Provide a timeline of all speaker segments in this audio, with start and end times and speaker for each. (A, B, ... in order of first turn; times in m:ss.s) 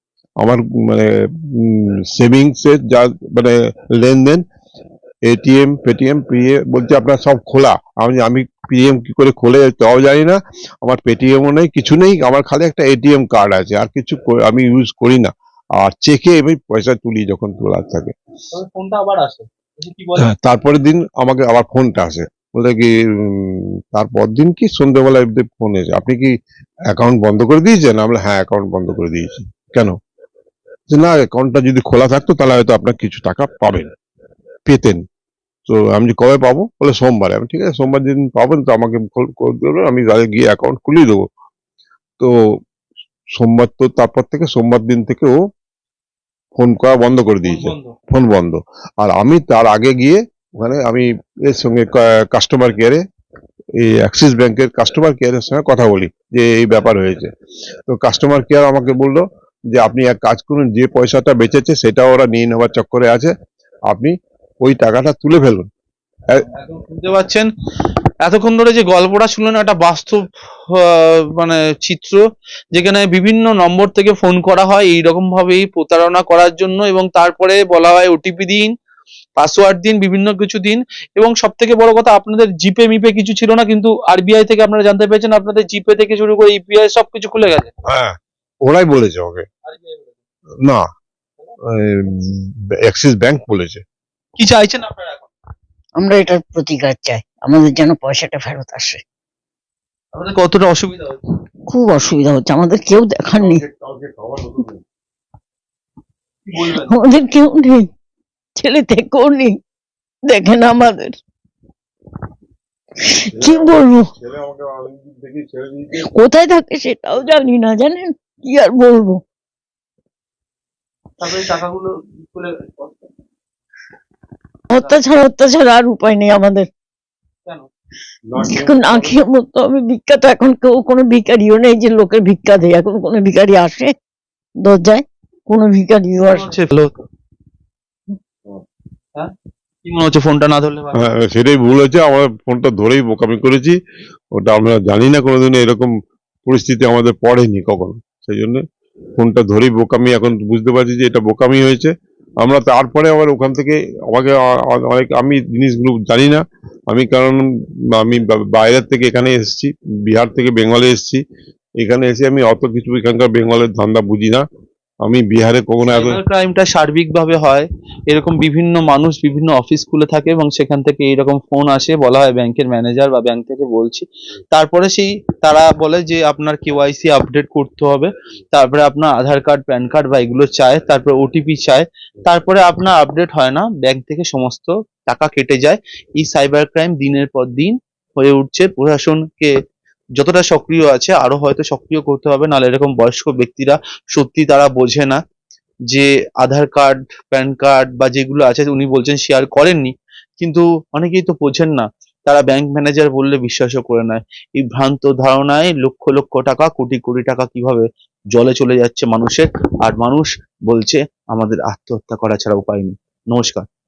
0:00.4-0:04.4 A
0:05.2-0:18.1 A
0:18.5-0:20.3 B
0:20.2-0:26.3 A
0:26.9-0:30.0 A
0:30.9-0:33.9 A
0:34.6-0:35.0 A
0:35.7-0:41.2 A
0:43.3-0:45.4 A
0:46.6-0:53.0 A
0:47.4-0:47.9 B
0:53.8-0:57.3 A
0:57.9-1:03.3 A
1:03.9-1:05.6 A
1:06.4-1:07.5 B
1:08.2-1:12.2 B
1:12.7-1:18.7 B
1:19.4-1:27.7 B
1:27.9-1:29.5 A
1:29.6-1:30.2 B
1:31.7-1:33.8 A
1:34.4-1:35.3 B
1:36.0-1:39.0 C
1:40.1-1:41.2 B
1:41.7-1:43.6 C
1:43.3-1:44.8 A
1:46.5-1:46.9 B
1:46.7-1:47.9 C
1:48.6-1:49.6 C
1:50.3-1:51.1 C
1:53.0-1:54.1 C
1:53.3-1:56.1 A
1:56.0-1:59.2 C
2:01.2-2:02.7 B
2:04.7-2:06.7 C
2:04.7-2:05.0 B
2:08.3-2:09.2 A
2:08.4-2:13.9 C
2:14.6-2:16.6 C
2:16.3-2:16.9 B
2:19.8-2:21.0 B
2:20.9-2:23.8 A
2:24.3-2:25.9 A
2:26.4-2:28.6 A
2:29.2-2:37.4 A
2:37.9-2:41.2 A
2:41.8-2:44.4 A
2:45.0-2:46.2 A
2:45.9-3:09.5 B
3:10.2-3:15.2 B
3:15.9-3:33.6 B